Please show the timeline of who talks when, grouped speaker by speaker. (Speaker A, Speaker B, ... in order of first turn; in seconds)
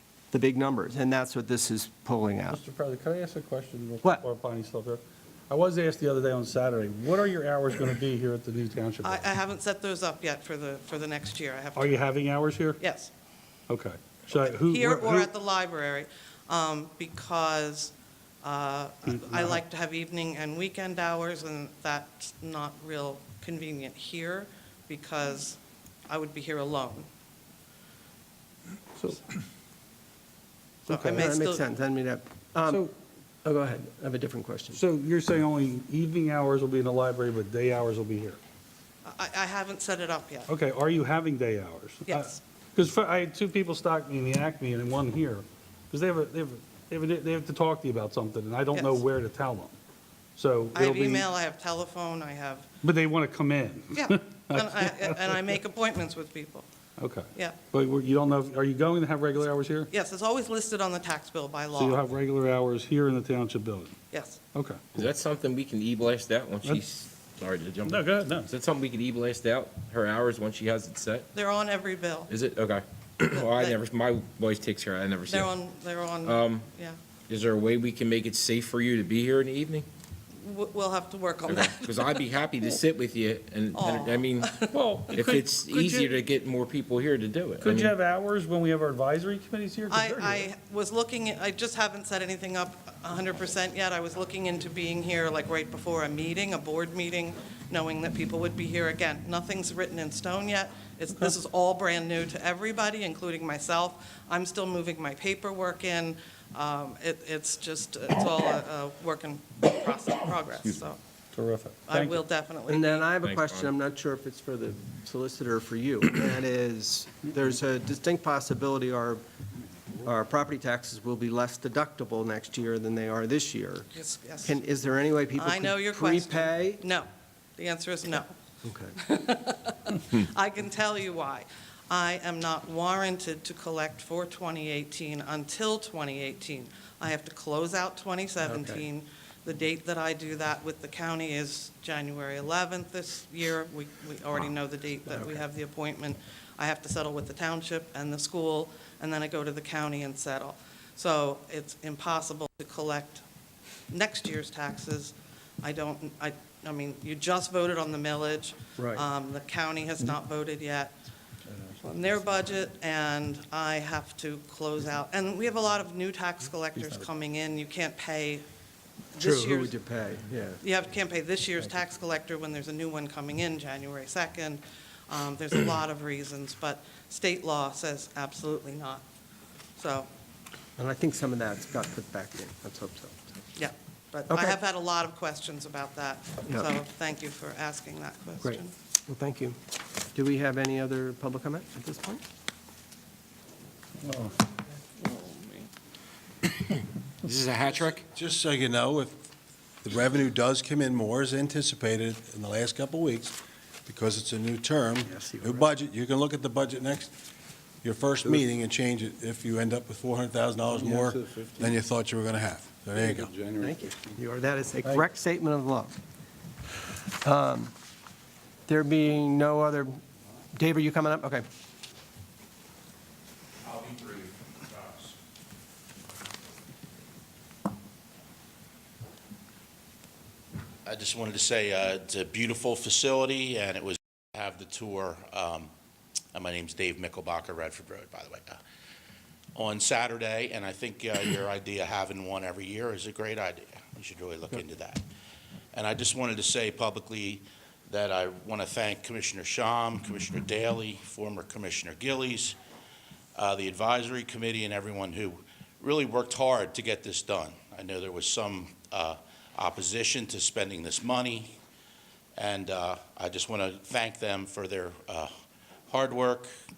Speaker A: 0.3-2.6, 31.1-32.9, 33.4-34.8, 112.7-119.2, 120.0-123.9, 124.4-126.8, 128.6-128.9, 138.4-138.8, 145.1-145.4, 158.8-159.0, 169.2-170.6, 180.8-183.3, 184.3-184.6, 188.4-189.6, 190.1-192.2, 205.1-205.6, 213.6-215.9, 217.2-217.7, 218.7-220.0, 220.5-221.4
Speaker B: 2.5-9.2, 11.7-12.8, 13.7-15.3, 19.1-19.6, 30.9-31.3, 34.7-38.4, 40.5-49.7, 50.4-51.3, 52.8-55.6, 57.0-59.9, 61.7-64.0, 64.5-64.8, 67.8-68.5, 84.7-86.2, 87.6-90.5, 111.3-112.2, 194.0-194.3, 213.0-213.7
Speaker C: 9.0-12.0, 12.8-13.1, 14.3-27.1, 30.9-31.6, 39.0-40.5, 42.1-42.4, 48.7-49.0, 50.7-52.7, 53.9-56.6, 59.9-62.0, 64.1-64.4, 71.3-72.3, 73.3-73.8, 75.3-77.0, 80.4-82.1, 83.7-84.8, 89.9-111.0, 111.9-113.0, 123.9-124.5, 125.4-128.3, 129.0-153.2, 153.9-160.9, 161.8-168.4, 169.1-169.7, 170.6-179.0, 179.8-180.1, 183.6-188.7, 195.0-195.7
Speaker D: 64.9-71.3, 72.3-75.5, 76.2-76.6, 77.3-79.8, 81.5-84.6, 85.1-87.9, 113.2-113.7, 197.2-198.0
Speaker E: 198.0-199.2, 199.8-207.1, 207.8-213.3
Speaker F: 223.6-225.1, 230.8-235.7, 236.3-238.6, 239.5-245.0, 245.7-252.6, 253.3-261.6, 262.4-265.3, 265.9-266.5